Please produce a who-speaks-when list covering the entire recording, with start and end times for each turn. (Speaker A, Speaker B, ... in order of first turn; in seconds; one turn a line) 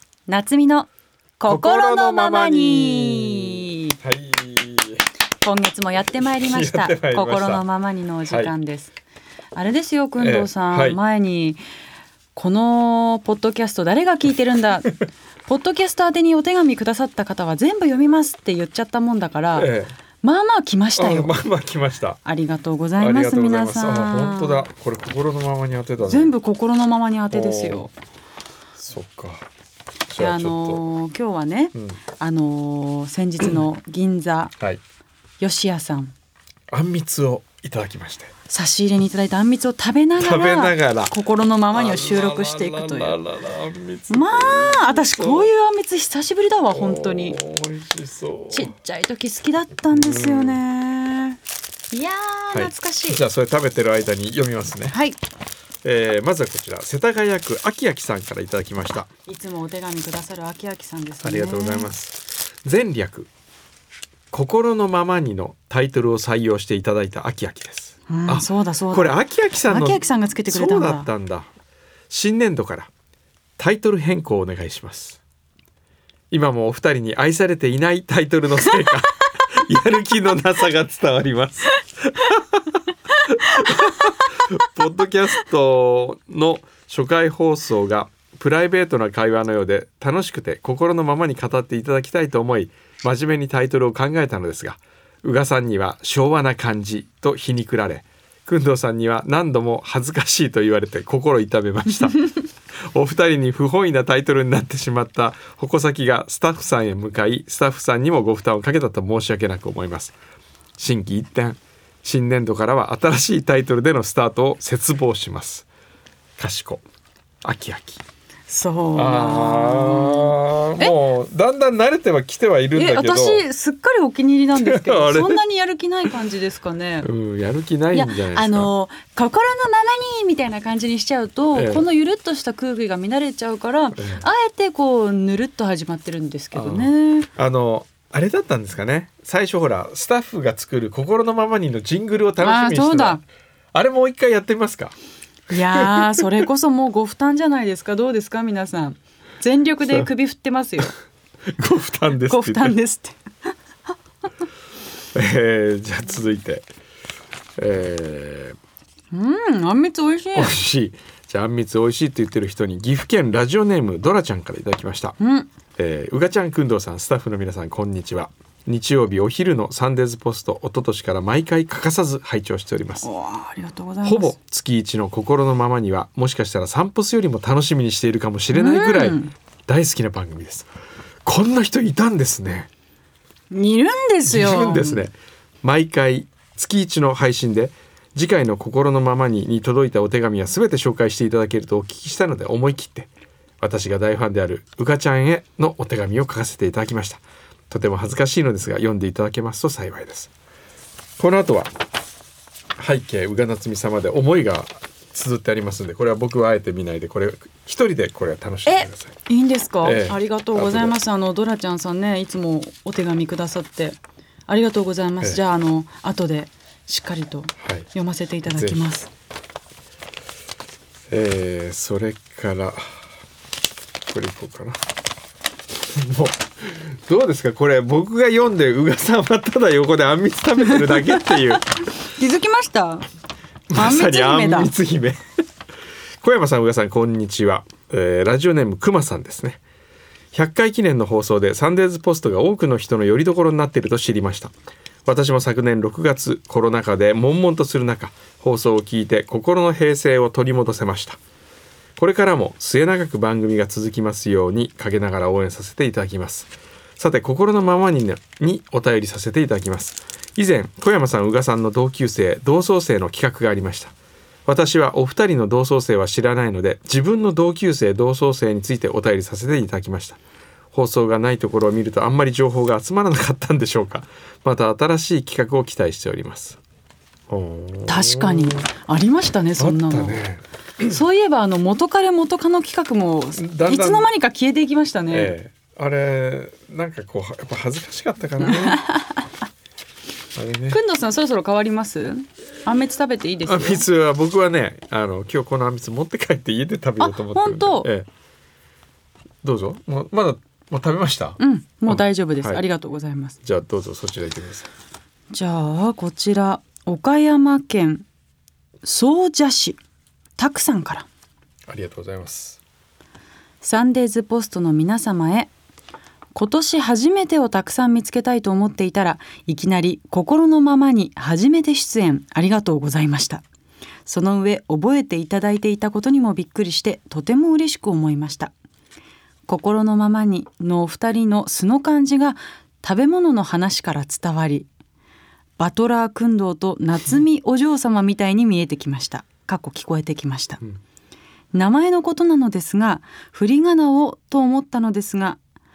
Speaker A: 0.3-0.9
Speaker A: 1.4-3.9
Speaker B: 1.5-5.0
Speaker A: 5.4-8.9
Speaker B: 6.4-7.6
Speaker B: 8.3-8.5
Speaker A: 9.5-11.6
Speaker B: 10.2-11.0
Speaker A: 12.3-14.9
Speaker A: 15.5-19.7
Speaker B: 19.6-19.9
Speaker A: 20.2-21.3
Speaker B: 21.0-22.2
Speaker A: 22.2-24.7
Speaker B: 23.0-26.3
Speaker A: 26.0-27.9
Speaker B: 27.3-27.9
Speaker B: 28.8-29.5
Speaker B: 30.1-30.8
Speaker A: 30.2-34.5
Speaker B: 31.8-32.0
Speaker A: 35.4-36.1
Speaker B: 36.7-38.3
Speaker A: 38.5-43.2
Speaker B: 40.2-41.2
Speaker B: 41.7-45.5
Speaker A: 44.1-47.4
Speaker B: 46.7-48.7
Speaker A: 48.5-51.4
Speaker B: 49.9-50.6
Speaker A: 51.9-53.2
Speaker B: 52.5-55.0
Speaker A: 54.9-55.2
Speaker B: 55.8-59.1
Speaker A: 59.3-61.9
Speaker B: 61.2-63.3
Speaker B: 64.3-71.5
Speaker A: 68.1-71.1
Speaker B: 72.1-72.9
Speaker B: 73.6-75.2
Speaker B: 76.3-102.3
Speaker B: 102.9-110.2
Speaker B: 110.8-115.7
Speaker B: 116.4-116.8
Speaker B: 117.4-118.0
Speaker A: 118.5-121.0
Speaker B: 119.0-123.5
Speaker A: 122.8-127.1
Speaker B: 124.6-125.4
Speaker B: 127.0-128.7
Speaker A: 127.9-137.3
Speaker B: 131.5-131.9
Speaker B: 134.0-134.2
Speaker B: 136.6-143.2
Speaker A: 142.4-143.2
Speaker B: 143.7-144.9
Speaker A: 145.5-150.9
Speaker B: 145.6-146.4
Speaker B: 149.8-150.1
Speaker B: 151.6-152.8
Speaker A: 152.2-153.2
Speaker B: 155.1-156.7
Speaker B: 157.6-158.6
Speaker A: 159.1-160.6
Speaker B: 160.3-165.2
Speaker A: 165.2-165.5
Speaker B: 165.8-173.1
Speaker A: 173.0-174.3
Speaker B: 174.0-180.7
Speaker A: 178.5-179.3
Speaker B: 181.3-182.7
Speaker A: 183.5-185.0
Speaker B: 184.3-193.1
Speaker B: 193.6-200.3
Speaker B: 201.2-201.7
Speaker B: 202.8-209.2
Speaker A: 208.7-219.1
Speaker B: 209.8-211.0
Speaker B: 217.6-217.9
Speaker B: 218.5-218.9
Speaker B: 221.1-222.8
Speaker B: 224.1-224.8
Speaker B: 225.9-231.7
Speaker A: 230.9-233.1
Speaker B: 233.7-235.2
Speaker A: 233.7-234.7
Speaker B: 236.2-239.6
Speaker B: 240.3-244.5
Speaker B: 245.1-251.2
Speaker B: 252.0-263.9
Speaker B: 264.5-270.2
Speaker B: 270.7-276.6
Speaker B: 277.3-278.6
Speaker A: 277.9-280.2
Speaker B: 279.6-281.0
Speaker A: 280.8-285.3
Speaker B: 283.4-284.1
Speaker B: 285.1-288.8
Speaker A: 288.4-289.2
Speaker B: 290.4-290.8
Speaker A: 290.7-293.9
Speaker B: 293.4-298.1
Speaker A: 297.0-297.9
Speaker B: 299.4-302.6
Speaker A: 301.4-303.4
Speaker B: 303.4-304.7
Speaker A: 305.3-308.1
Speaker A: 308.8-309.8
Speaker A: 310.4-311.1
Speaker B: 311.7-312.6
Speaker A: 313.6-315.5
Speaker A: 316.3-323.4
Speaker A: 324.1-328.5
Speaker A: 329.5-334.7
Speaker A: 335.6-340.6
Speaker A: 341.5-345.4